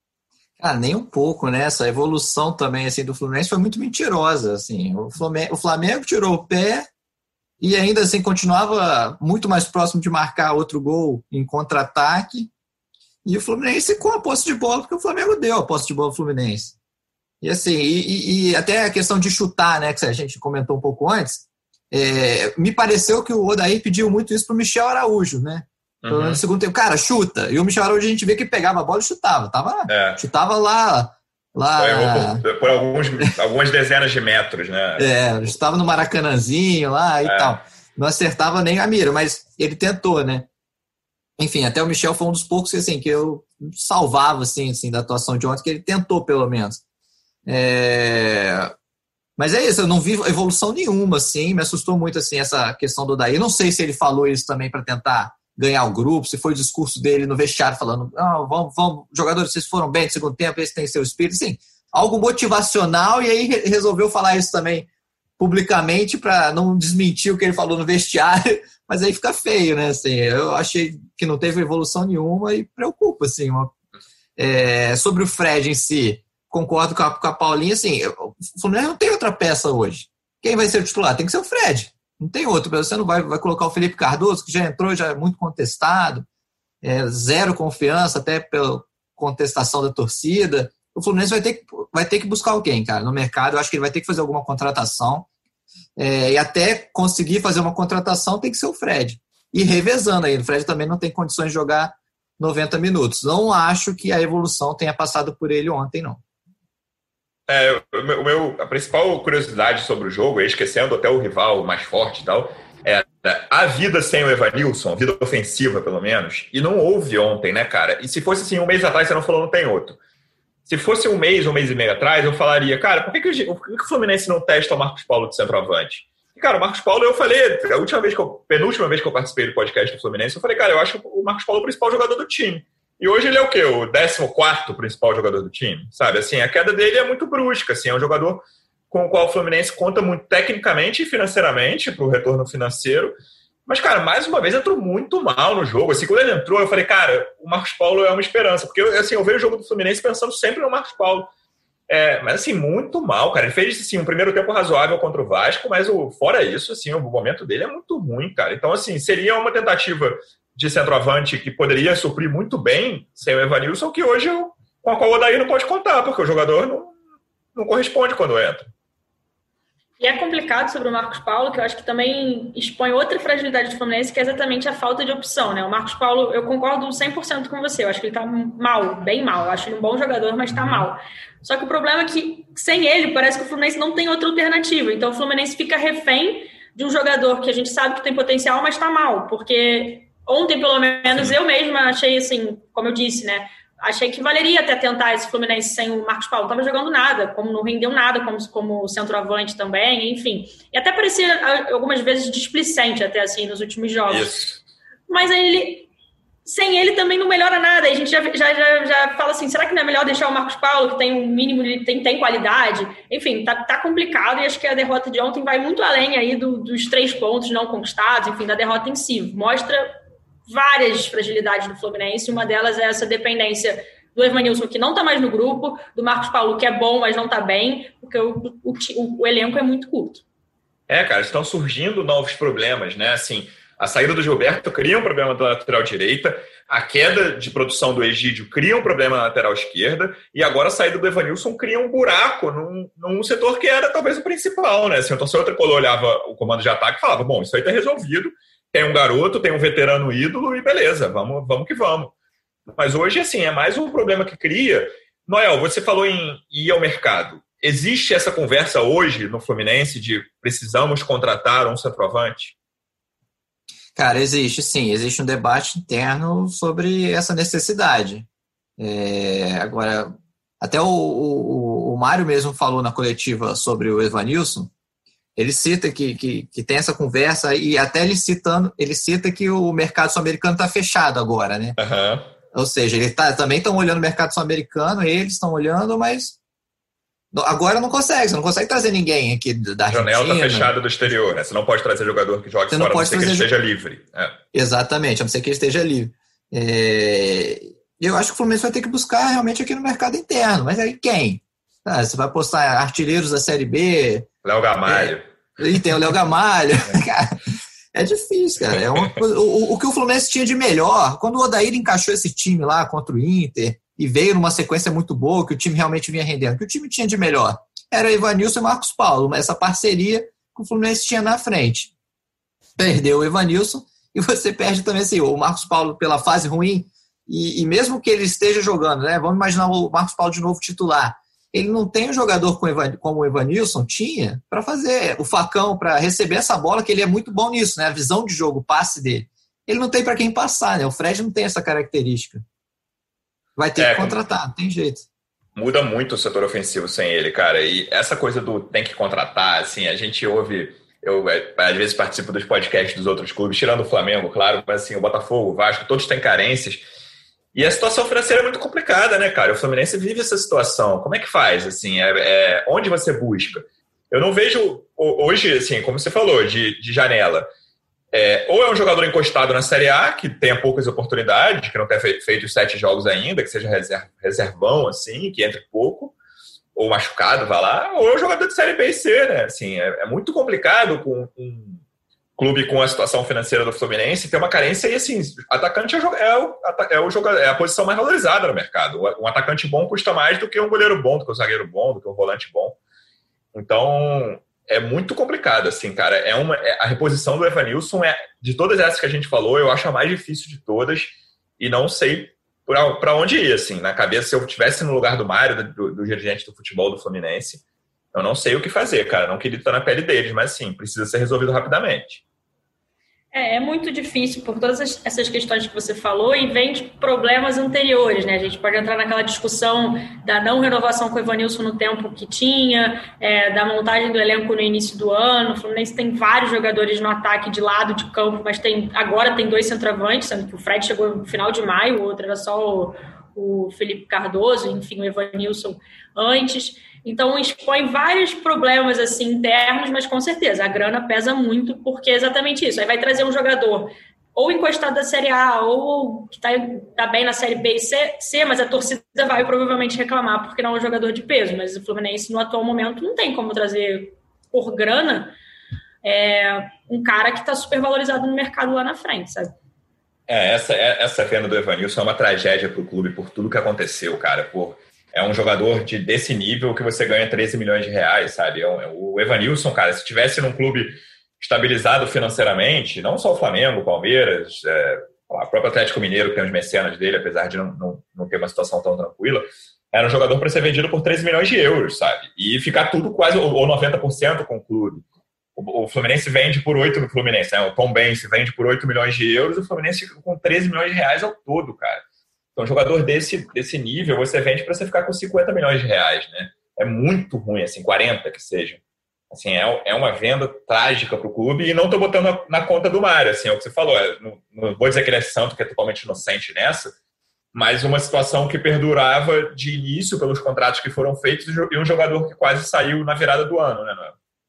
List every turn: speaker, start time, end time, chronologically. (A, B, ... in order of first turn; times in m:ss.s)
0:00.6-0:06.9 A
0:07.6-0:12.5 A
0:13.2-0:16.8 A
0:17.4-0:32.4 A
0:26.0-0:26.4 B
0:29.9-0:30.2 B
0:31.8-0:35.1 B
0:35.0-0:40.5 A
0:37.2-0:37.6 B
0:41.4-0:46.8 A
0:47.5-0:48.7 A
0:49.4-1:04.9 A
1:05.4-1:13.7 A
1:14.4-1:26.3 A
1:26.8-1:35.3 A
1:36.0-1:46.2 A
1:47.5-2:00.0 B
2:00.7-2:23.1 B
2:23.7-2:31.3 B
2:31.9-2:46.9 B
2:47.6-2:48.7 B
2:50.0-3:24.3 C
3:00.5-3:00.9 B
3:24.1-3:24.6 B
3:25.1-3:25.9 C
3:26.4-3:50.2 C
3:50.9-4:12.1 B
4:12.8-4:22.6 B
4:24.0-4:28.3 A
4:28.8-4:34.7 A
4:35.4-4:41.8 A
4:41.8-4:42.3 B
4:42.5-4:46.4 A
4:47.3-4:50.7 A
4:49.9-4:54.4 B
4:52.7-4:53.5 A
4:54.5-5:04.3 A
5:04.4-5:05.8 B
5:04.9-5:07.4 A
5:07.9-5:21.9 A
5:22.8-5:42.4 A
5:43.6-5:45.1 A
5:43.8-5:44.2 B
5:45.6-5:56.8 B
5:57.6-6:07.5 B
6:08.1-6:16.1 B
6:16.8-6:21.8 B
6:22.4-6:32.8 B
6:33.5-6:52.2 B
6:53.3-7:35.3 C
7:36.0-7:39.5 C
7:40.3-8:05.0 B
8:05.6-8:12.0 B
8:12.6-8:18.8 B
8:19.3-8:26.9 B
8:27.5-8:34.1 B